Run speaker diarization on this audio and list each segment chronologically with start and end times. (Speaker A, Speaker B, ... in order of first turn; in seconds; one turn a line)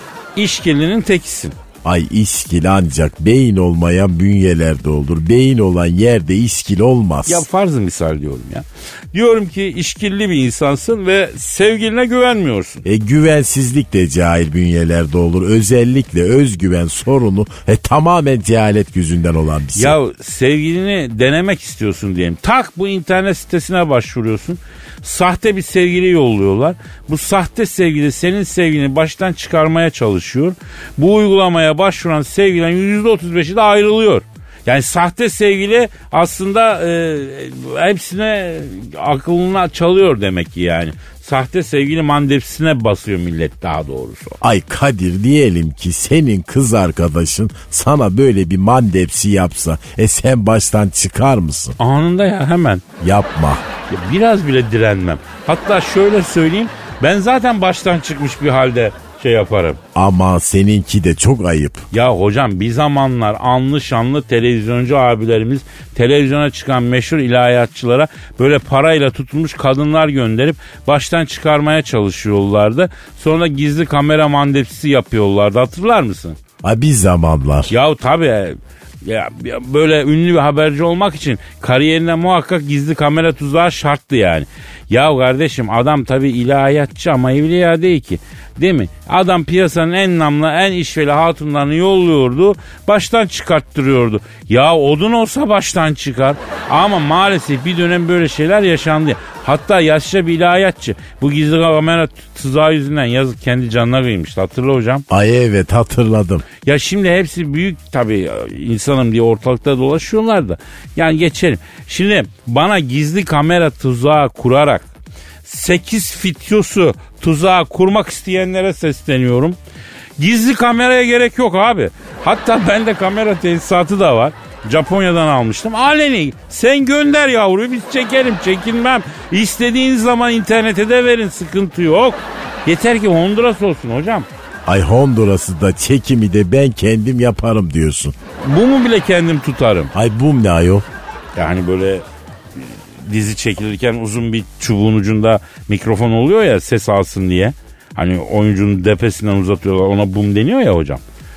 Speaker A: 0.3-1.5
Speaker B: 1.8-7.4
Speaker A: 7.2-12.8
Speaker B: 12.8-20.0
Speaker A: 19.8-44.4
Speaker B: 44.4-51.8
Speaker A: 51.8-52.8
Speaker B: 53.0-53.6
Speaker A: 53.9-59.8
Speaker B: 59.9-61.8
Speaker A: 61.9-76.4
Speaker B: 76.6-77.7
Speaker A: 77.7-105.0
Speaker B: 105.1-106.5
Speaker A: 106.6-114.8
Speaker A: 115.4-119.6
Speaker A: 120.2-134.3
Speaker B: 134.7-138.1
Speaker A: 138.4-139.9
Speaker B: 139.9-140.8
Speaker A: 141.3-142.0
Speaker A: 142.6-151.0